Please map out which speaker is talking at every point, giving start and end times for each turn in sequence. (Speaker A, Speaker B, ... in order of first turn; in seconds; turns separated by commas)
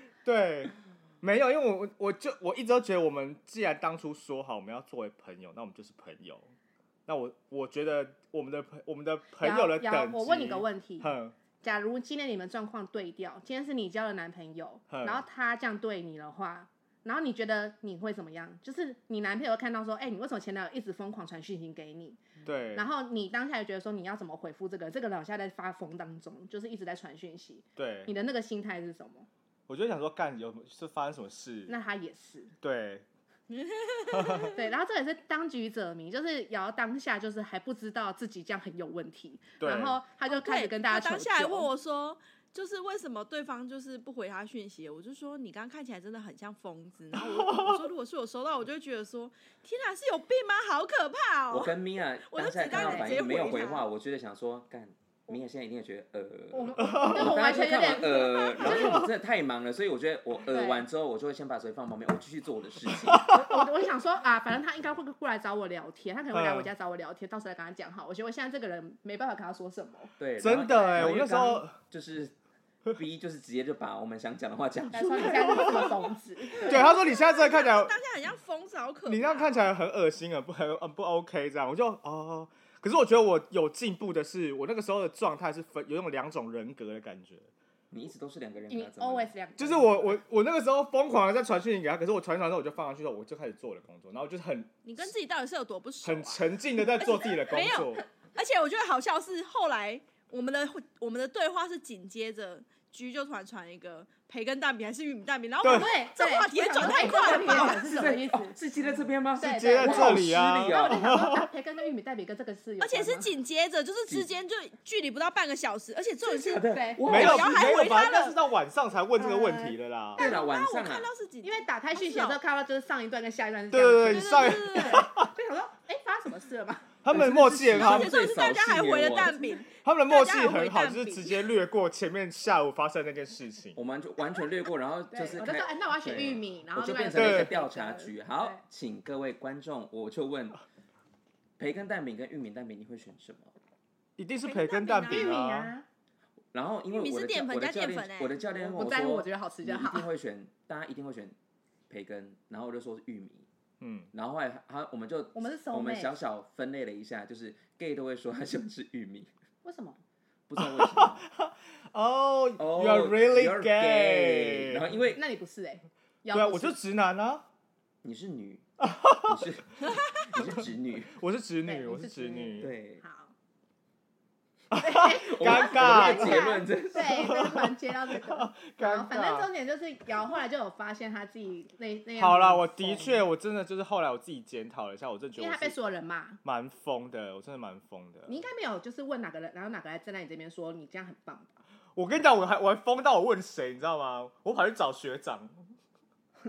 Speaker A: 0.2-6.5, Speaker A: 7.1-11.3, Speaker B: 9.4-11.1, Speaker B: 11.6-22.2, Speaker A: 14.9-15.2, Speaker A: 22.4-22.9, Speaker B: 22.7-29.3, Speaker A: 27.8-28.1, Speaker A: 29.7-31.7, Speaker B: 31.7-32.5, Speaker A: 32.6-33.0, Speaker C: 33.5-34.6, Speaker A: 34.1-34.5, Speaker B: 34.5-41.7, Speaker A: 39.6-40.0, Speaker C: 40.3-53.9, Speaker A: 47.1-47.8, Speaker D: 51.5-63.3, Speaker B: 52.7-53.4, Speaker B: 56.5-59.1, Speaker A: 56.8-57.4, Speaker C: 57.5-58.8, Speaker A: 58.7-59.1, Speaker B: 60.5-60.9, Speaker A: 62.9-63.6, Speaker B: 63.3-71.2, Speaker A: 66.3-66.7, Speaker D: 70.2-72.3, Speaker A: 70.4-71.7, Speaker D: 72.9-76.1, Speaker B: 74.9-76.9, Speaker A: 75.3-75.9, Speaker A: 76.6-78.0, Speaker C: 76.7-79.7, Speaker A: 79.1-87.5, Speaker D: 87.9-89.3, Speaker B: 88.7-90.2, Speaker A: 89.6-95.1, Speaker C: 94.8-96.4, Speaker A: 96.0-98.0, Speaker C: 97.0-108.1, Speaker A: 105.6-105.9, Speaker B: 105.7-108.6, Speaker D: 107.0-111.2, Speaker B: 109.4-113.3, Speaker A: 109.4-111.5, Speaker C: 112.8-118.4, Speaker D: 116.3-117.7, Speaker B: 116.6-117.1, Speaker A: 117.0-120.3, Speaker B: 119.2-119.8, Speaker C: 120.2-122.4, Speaker D: 120.2-121.1, Speaker B: 121.4-127.7, Speaker A: 123.7-125.3, Speaker C: 124.1-125.1, Speaker A: 127.0-128.2, Speaker D: 127.1-129.4, Speaker C: 127.8-131.5, Speaker A: 129.8-133.8, Speaker D: 133.8-140.6, Speaker B: 135.1-138.6, Speaker A: 137.2-137.5, Speaker D: 141.6-143.5, Speaker A: 144.2-145.7, Speaker C: 144.4-145.4, Speaker B: 145.1-145.9, Speaker D: 146.5-151.3, Speaker C: 146.9-148.4, Speaker B: 148.6-150.1, Speaker D: 151.9-153.5, Speaker A: 153.8-154.1, Speaker D: 154.1-159.3, Speaker B: 155.3-156.2, Speaker B: 159.6-160.0, Speaker D: 160.5-161.2, Speaker A: 160.6-164.9, Speaker D: 162.6-165.2, Speaker B: 165.2-166.8, Speaker A: 166.3-167.4, Speaker D: 168.0-168.7, Speaker A: 168.8-169.5, Speaker D: 169.2-171.2, Speaker A: 170.4-170.6, Speaker A: 171.2-172.7, Speaker B: 171.7-173.3, Speaker D: 172.6-173.0, Speaker A: 174.7-179.5, Speaker B: 174.7-183.2, Speaker D: 175.0-177.3, Speaker A: 182.2-185.8, Speaker B: 185.4-186.4, Speaker A: 186.4-188.3, Speaker B: 188.3-191.6, Speaker A: 191.9-195.6